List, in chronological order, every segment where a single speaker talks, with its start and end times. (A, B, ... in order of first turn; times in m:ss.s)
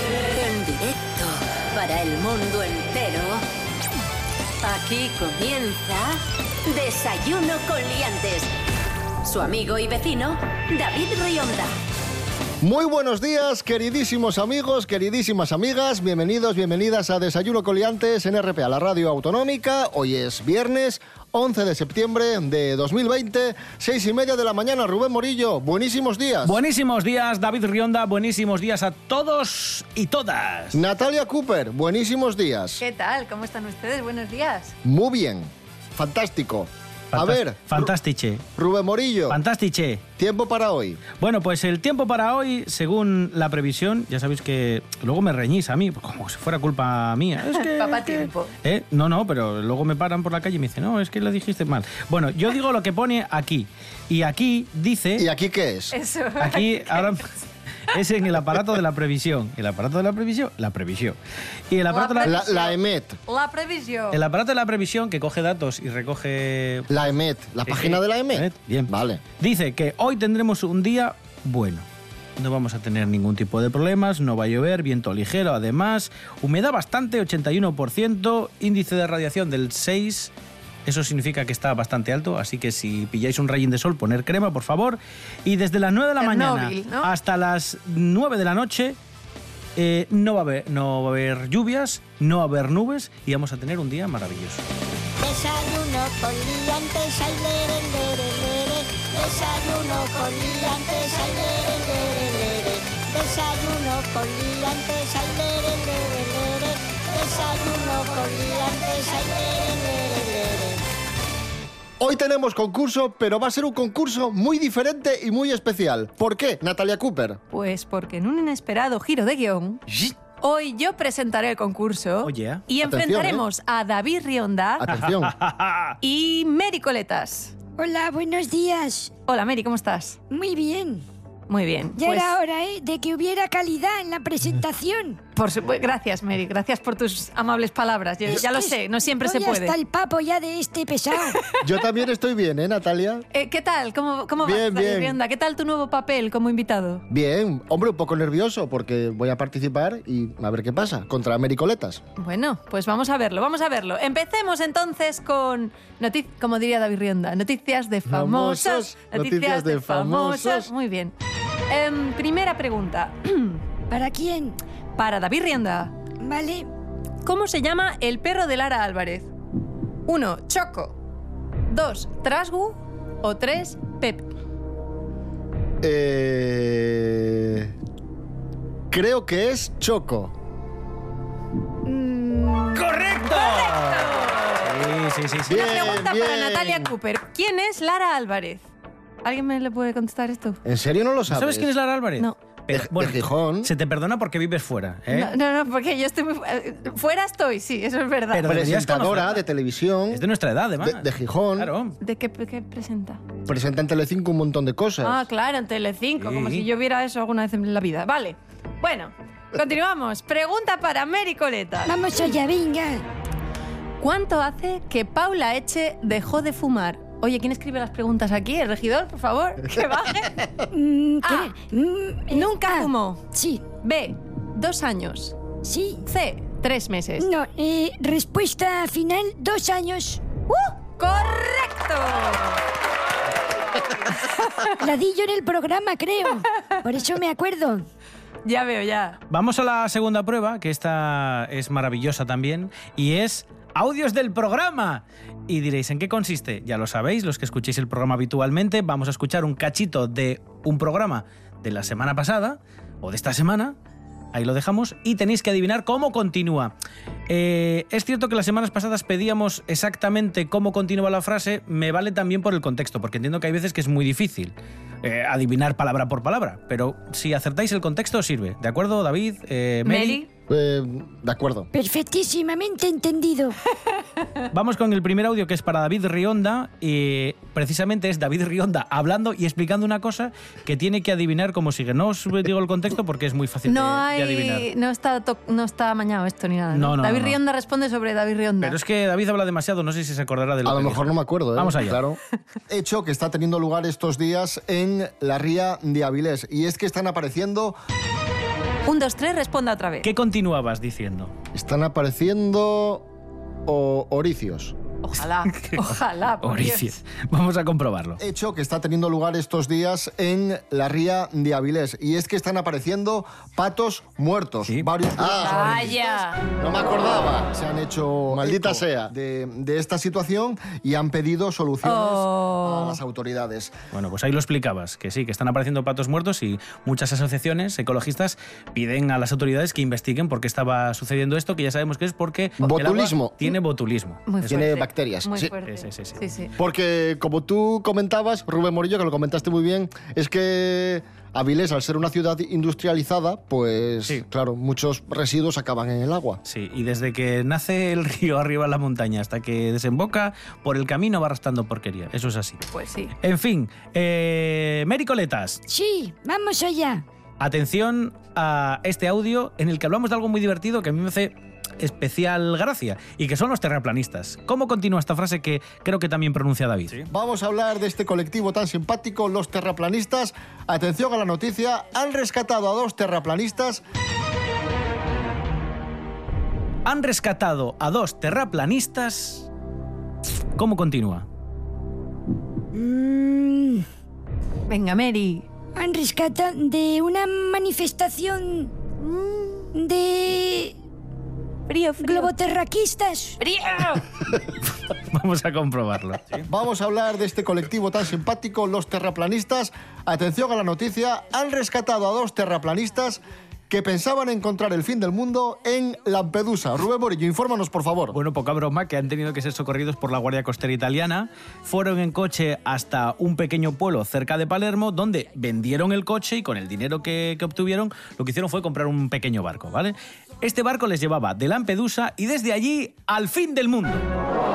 0:00.2-0:03.4 A
0:04.6-0:08.5 A
0:09.2-0:11.7 A
0:12.6-0:26.6 B
0:26.4-0:30.8 C
0:30.7-0:32.8 B
0:32.8-0:34.8 D
0:34.8-0:37.9 B
0:37.1-0:38.4 C
0:38.6-0:39.4 B
0:39.3-0:40.0 C
0:40.2-0:41.0 B
0:41.2-0:55.2 C
0:47.6-0:48.5 D
0:55.2-0:55.9 B
0:55.9-0:57.2 D
0:56.4-0:57.3 C
0:57.9-1:01.2 C
1:01.7-1:02.4 C
1:01.9-1:04.2 D
1:02.2-1:03.2 B
1:04.1-1:06.9 C
1:06.9-1:09.2 B
1:07.7-1:11.8 C
1:12.4-1:20.3 C
1:20.8-1:29.0 C
1:26.2-1:27.1 D
1:29.8-1:34.6 C
1:35.2-1:50.8 E
1:52.0-1:57.4 B
1:57.5-1:59.8 D
2:00.4-2:04.9 D
2:02.2-2:02.6 C
2:02.8-2:03.4 B
2:04.8-2:05.3 B
2:05.0-2:06.0 C
2:06.0-2:07.5 D
2:07.8-2:09.1 F
2:09.3-2:10.2 D
2:10.3-2:11.0 F
2:11.5-2:12.3 D
2:12.0-2:15.2 F
2:15.3-2:19.8 D
2:18.3-2:21.5 F
2:21.6-2:23.2 B
2:23.3-2:27.0 D
2:24.4-2:25.2 B
2:27.1-2:32.0 B
2:32.2-2:41.1 D
2:38.1-2:40.7 B
2:41.7-2:43.6 D
2:43.9-2:44.6 F
2:45.0-2:45.9 D
2:46.2-2:46.7 F
2:47.2-2:49.3 D
2:50.1-2:51.0 D
2:51.7-2:54.3 D
2:55.8-2:57.7 B
2:58.9-3:00.3 B
3:01.9-3:04.7 D
3:02.7-3:05.8 C
3:05.5-3:06.9 B
3:05.5-3:08.7 D
3:09.2-3:10.6 D
3:10.6-3:11.7 B
3:11.3-3:15.3 C
3:12.7-3:13.7 B
3:15.1-3:18.5 D
3:18.3-3:19.4 C
3:18.5-3:20.2 B
3:20.1-3:22.0 C
3:20.8-3:21.7 B
3:22.0-3:23.2 D
3:23.5-3:25.2 B
3:25.0-3:32.2 D
3:26.2-3:26.7 C
3:31.9-3:33.0 F
3:34.0-3:40.5 D
3:40.7-3:43.6 F
3:41.2-3:41.5 D
3:42.3-3:43.2 D
3:43.8-3:45.4 D
3:45.6-3:46.0 F
3:46.1-3:47.3 D
3:47.2-3:50.2 F
3:50.5-3:52.6 D
3:54.1-3:54.7 D
3:54.7-3:57.9 F
3:58.4-3:59.2 D
3:59.3-4:13.8 C
4:14.3-4:16.7 C
4:17.3-4:30.2 C
4:29.8-4:30.3 D
4:30.5-4:31.7 B
4:31.7-4:33.6 F
4:34.5-4:44.7 C
4:43.7-4:48.8 D
4:46.7-4:47.4 C
4:48.6-4:52.0 C
4:50.6-4:57.8 B
4:58.9-5:00.1 D
5:00.0-5:01.3 C
5:01.5-5:03.1 B
5:03.7-5:04.8 B
5:05.0-5:06.9 D
5:05.5-5:05.9 C
5:06.4-5:08.2 C
5:08.2-5:23.8 B
5:15.2-5:16.4 D
5:18.3-5:18.8 C
5:21.8-5:23.0 D
5:23.9-5:34.5 C
5:32.6-5:33.4 B
5:34.3-5:36.5 D
5:34.5-5:35.5 B
5:35.7-5:36.2 C
5:36.6-5:46.4 B
5:46.4-5:52.6 C
5:52.7-5:53.1 D
5:53.2-5:55.6 C
5:55.7-5:57.0 F
5:57.4-6:07.1 C
6:07.1-6:13.8 B
6:16.8-6:19.5 C
6:20.6-6:21.2 C
6:22.7-6:23.9 F
6:24.7-6:25.4 D
6:25.8-6:28.7 F
6:29.0-6:29.7 D
6:29.7-6:30.8 F
6:31.7-6:32.3 D
6:32.0-6:33.4 F
6:33.4-6:34.0 D
6:35.1-6:36.4 C
6:36.5-6:48.2 B
6:48.1-7:04.1 C